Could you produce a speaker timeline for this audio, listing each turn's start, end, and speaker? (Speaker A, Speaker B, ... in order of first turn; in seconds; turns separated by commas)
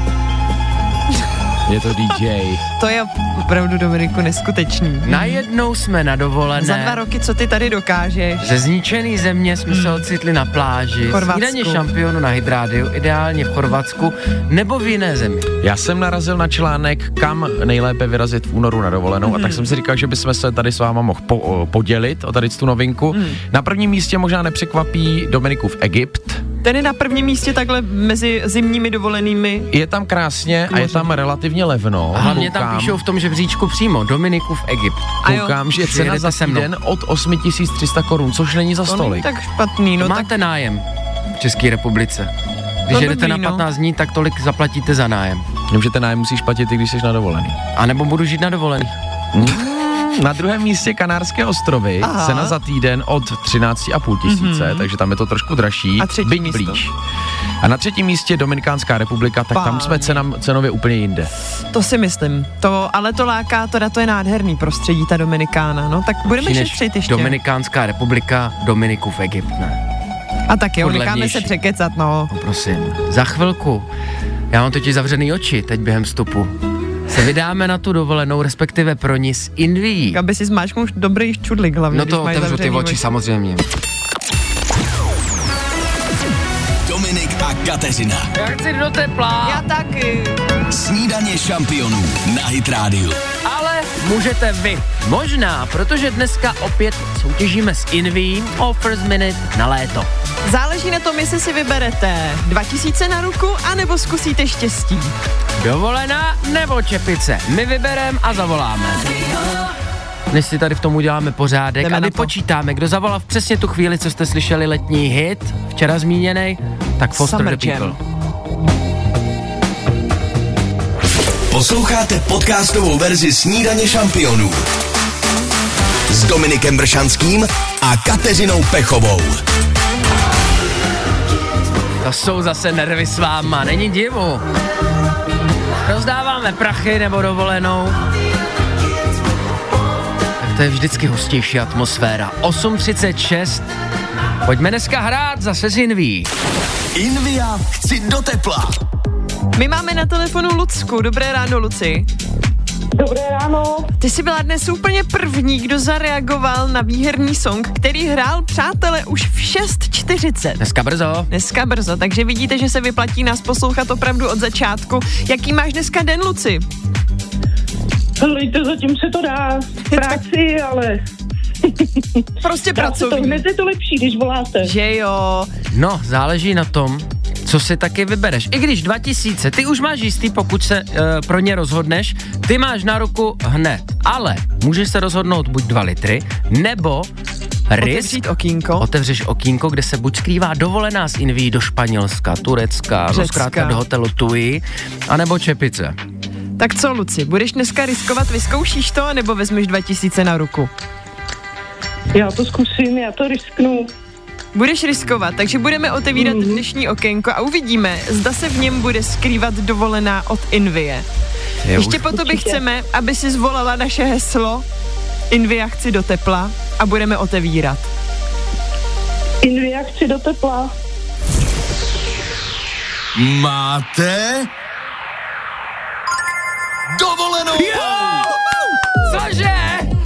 Speaker A: 1.7-2.6, Speaker B: 2.8-5.4, Speaker C: 5.0-7.0, Speaker B: 6.5-8.5, Speaker C: 8.4-15.5, Speaker B: 9.7-10.0, Speaker B: 11.1-11.8, Speaker A: 15.6-26.4, Speaker B: 19.2-19.7, Speaker B: 23.1-23.4, Speaker B: 26.6-29.7, Speaker A: 29.7-33.0, Speaker B: 30.7-31.1, Speaker C: 32.1-35.2, Speaker B: 35.2-35.6, Speaker A: 35.2-39.3, Speaker C: 35.7-36.7, Speaker B: 38.9-40.3, Speaker C: 40.0-40.8, Speaker C: 41.4-42.3, Speaker C: 42.9-45.4, Speaker B: 42.9-43.6, Speaker A: 45.7-47.6, Speaker C: 47.7-48.9, Speaker A: 49.3-56.9, Speaker B: 52.0-52.6, Speaker B: 54.2-54.9, Speaker B: 56.0-56.9, Speaker A: 57.6-61.3, Speaker B: 59.5-60.2, Speaker B: 61.7-67.3, Speaker C: 66.3-69.8, Speaker B: 70.5-72.3, Speaker C: 70.8-71.5, Speaker C: 72.3-73.9, Speaker C: 74.5-76.5, Speaker C: 77.1-80.2, Speaker B: 80.1-83.0, Speaker C: 81.9-83.7, Speaker D: 86.8-88.3, Speaker C: 88.3-89.7, Speaker B: 89.4-90.4, Speaker D: 90.7-93.2, Speaker C: 93.4-100.1, Speaker B: 100.5-105.1, Speaker C: 105.6-109.3, Speaker C: 110.3-118.0, Speaker B: 111.8-112.3, Speaker B: 117.1-118.0, Speaker D: 121.5-124.7, Speaker D: 126.1-129.4, Speaker C: 132.0-134.4, Speaker C: 135.8-138.0, Speaker C: 140.4-143.7, Speaker C: 144.4-146.3, Speaker D: 146.9-148.8, Speaker B: 149.6-152.1, Speaker E: 152.9-153.9, Speaker B: 154.0-160.6, Speaker C: 160.6-161.3, Speaker B: 161.3-166.6, Speaker E: 168.2-171.0, Speaker B: 169.9-170.2, Speaker B: 172.4-173.4, Speaker E: 172.7-174.7, Speaker B: 174.6-175.5, Speaker C: 175.7-187.1, Speaker C: 187.7-188.2, Speaker B: 187.8-188.8, Speaker C: 188.8-195.9, Speaker B: 193.1-193.8, Speaker B: 196.6-200.7, Speaker E: 202.1-203.9, Speaker B: 204.5-211.1, Speaker E: 206.2-206.6, Speaker C: 211.6-212.1, Speaker B: 211.7-214.7, Speaker E: 212.1-212.6, Speaker B: 215.3-217.9, Speaker E: 219.4-220.7, Speaker D: 223.2-224.5, Speaker D: 227.0-227.6, Speaker C: 227.5-228.3, Speaker C: 229.0-229.9